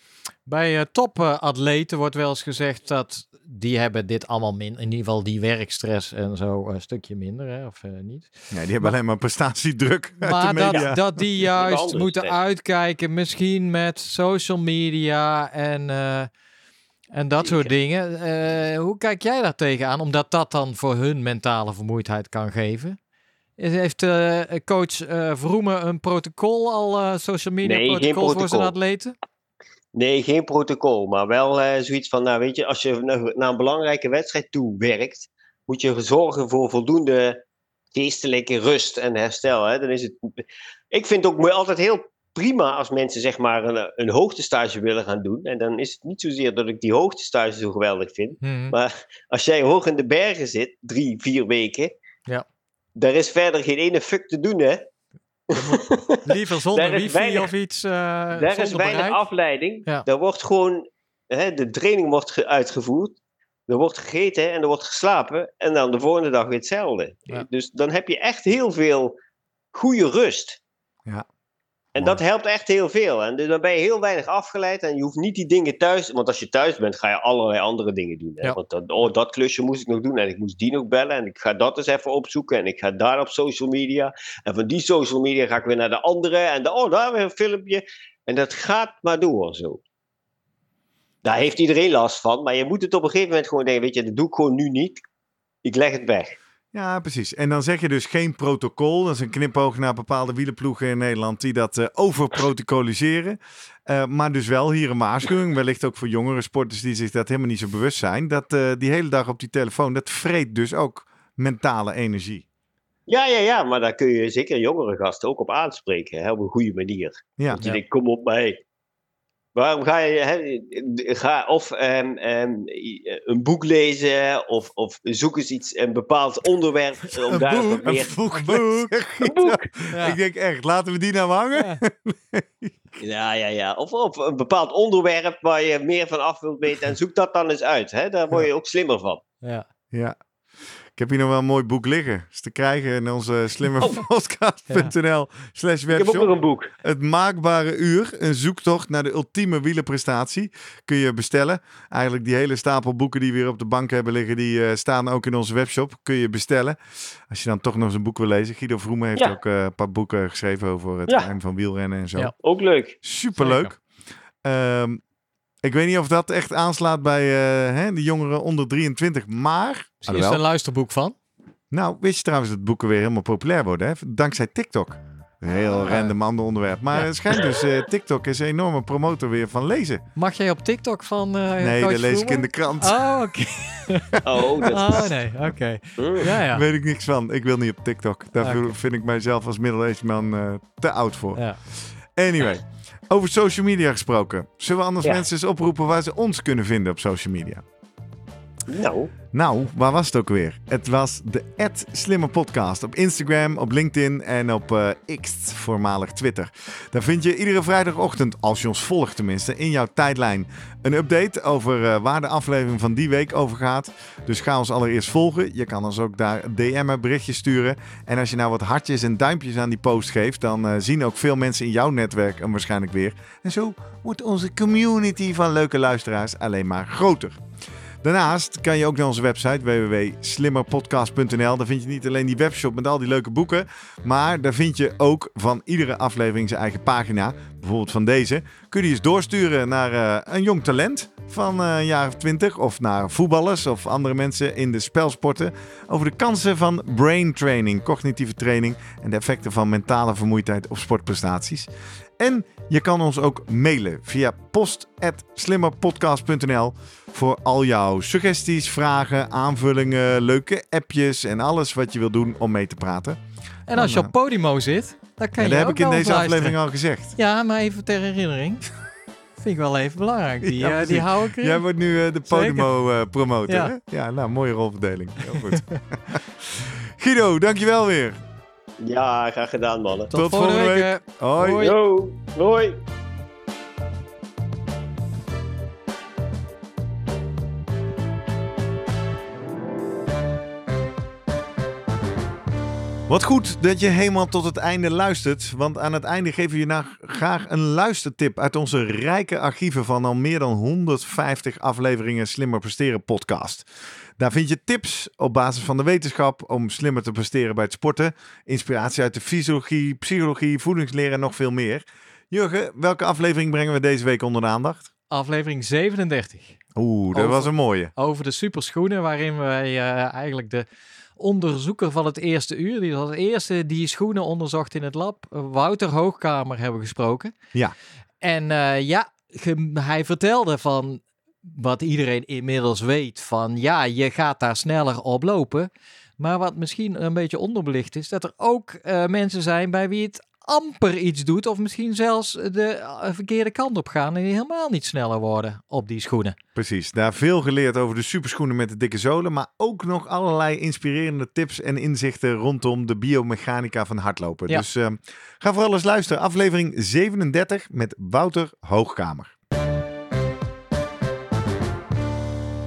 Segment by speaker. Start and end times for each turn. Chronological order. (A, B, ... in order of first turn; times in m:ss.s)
0:00.4-0:08.9 A
0:08.5-0:11.0 B
0:10.2-0:16.3 A
0:10.7-0:10.9 C
0:11.5-0:12.4 C
0:17.1-0:23.0 A
0:17.4-0:17.7 C
0:23.6-0:29.1 A
0:27.6-0:28.7 C
0:29.9-0:37.4 C
0:37.9-0:51.9 C
0:48.4-0:48.7 A
0:53.0-0:54.8 C
0:55.5-0:57.5 C
0:55.5-0:59.2 A
0:58.4-1:03.2 C
1:03.7-1:09.2 C
1:09.7-1:10.6 C
1:11.9-1:29.8 C
1:31.2-1:35.0 C
1:35.6-1:36.4 C
1:36.7-1:52.4 B
1:53.1-1:58.6 C
1:59.5-2:08.6 C
2:07.3-2:13.0 B
2:09.2-2:09.7 C
2:09.9-2:10.2 A
2:11.5-2:11.8 A
2:13.0-2:19.2 C
2:19.9-2:20.2 B
2:20.9-2:26.3 B
2:25.9-2:26.7 C
2:26.8-2:42.3 B
2:42.4-2:43.0 C
2:43.0-2:43.8 B
2:43.4-2:43.7 A
2:44.4-2:45.0 B
2:45.6-2:50.4 B
2:50.0-2:51.2 A
2:51.7-3:00.0 B
2:55.8-2:56.1 A
3:00.2-3:06.6 A
3:01.6-3:03.0 B
3:04.2-3:05.1 C
3:06.0-3:06.4 C
3:06.5-3:17.6 B
3:08.4-3:08.7 A
3:18.7-3:19.1 C
3:19.3-3:47.4 B
3:48.0-4:11.7 B
4:12.2-4:23.2 B
4:23.7-4:26.6 A
4:23.7-4:24.1 B
4:25.4-4:27.2 B
4:27.2-4:28.6 A
4:29.4-4:31.6 A
4:30.4-4:38.2 B
4:32.2-4:32.7 A
4:33.5-4:33.7 A
4:35.3-4:35.6 A
4:38.8-4:40.1 C
4:40.1-4:41.7 A
4:40.1-4:41.7 B
4:41.6-4:42.8 C
4:53.1-5:03.7 B
5:04.2-5:14.9 B
5:15.1-5:16.6 A
5:16.8-5:17.9 B
5:17.1-5:20.6 A
5:21.2-5:27.3 A
5:28.2-5:46.4 A
5:46.6-5:59.3 B